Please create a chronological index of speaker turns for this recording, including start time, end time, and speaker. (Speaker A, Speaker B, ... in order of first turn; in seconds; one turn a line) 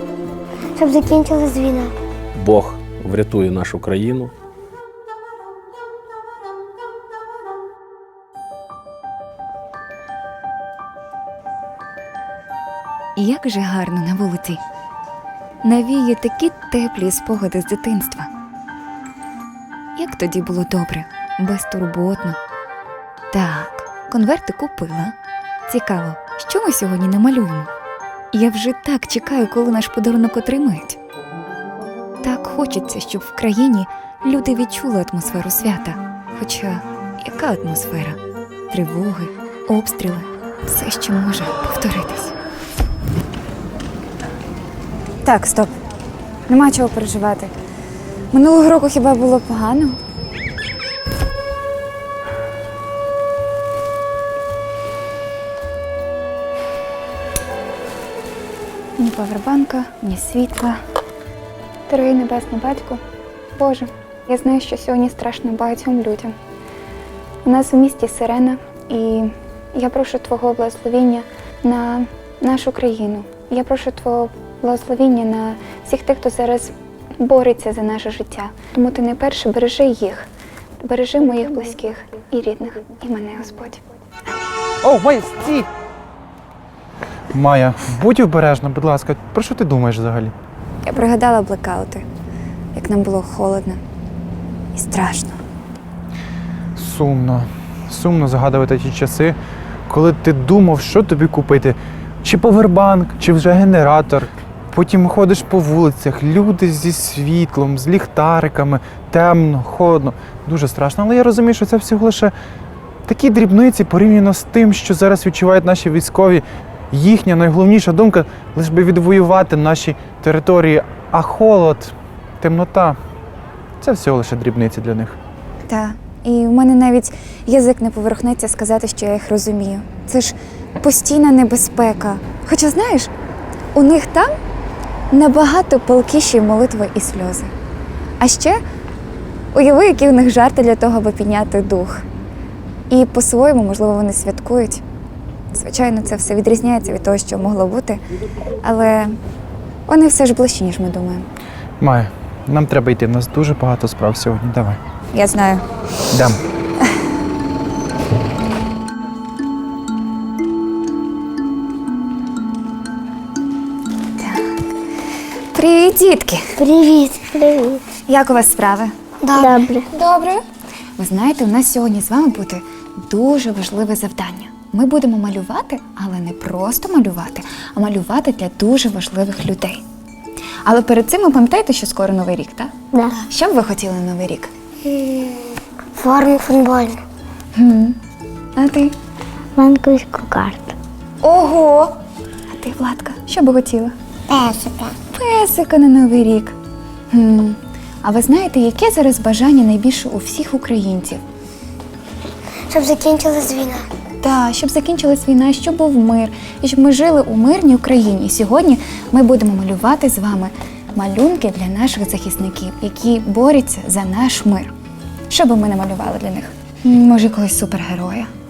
Speaker A: 0.8-1.9
Speaker B: 2.4-4.3
Speaker C: 13.2-14.6
Speaker C: 15.6-18.3
Speaker C: 20.0-22.4
Speaker C: 23.3-25.1
Speaker C: 25.7-27.7
Speaker C: 28.3-31.0
Speaker C: 32.2-38.2
Speaker C: 38.7-42.3
Speaker C: 45.2-45.8
Speaker C: 46.5-47.5
Speaker C: 48.3-50.0
Speaker C: 59.0-60.8
Speaker C: 61.9-63.0
Speaker C: 63.5-66.3
Speaker C: 67.4-80.3
Speaker C: 80.8-83.8
Speaker D: 84.8-85.7
Speaker D: 87.3-90.3
Speaker C: 90.8-92.0
Speaker C: 92.7-93.8
Speaker C: 94.7-95.4
Speaker D: 96.8-112.3
Speaker D: 113.0-123.0
Speaker D: 123.8-125.2
Speaker C: 125.7-133.1
Speaker C: 133.7-134.3
Speaker C: 135.1-137.5
Speaker C: 138.2-138.6
Speaker C: 139.5-142.0
Speaker C: 142.9-144.8
Speaker C: 145.5-148.0
Speaker C: 148.6-149.2
Speaker C: 149.9-151.3
Speaker D: 151.8-154.8
Speaker C: 155.1-155.6
Speaker D: 156.1-156.4
Speaker C: 164.2-164.4
Speaker C: 165.5-166.5
Speaker A: 166.6-167.8
Speaker C: 168.1-170.4
Speaker A: 169.2-169.9
Speaker C: 171.0-179.8
Speaker C: 180.6-182.7
Speaker A: 182.9-183.2
Speaker C: 183.3-184.5
Speaker A: 184.8-187.0
Speaker C: 187.5-188.0
Speaker C: 188.6-188.9
Speaker A: 189.5-190.8
Speaker C: 191.2-191.9
Speaker C: 192.6-193.9
Speaker A: 194.3-195.0
Speaker C: 195.1-196.5
Speaker C: 197.1-201.2
Speaker A: 202.7-203.9
Speaker C: 204.2-214.7
Speaker C: 215.3-218.3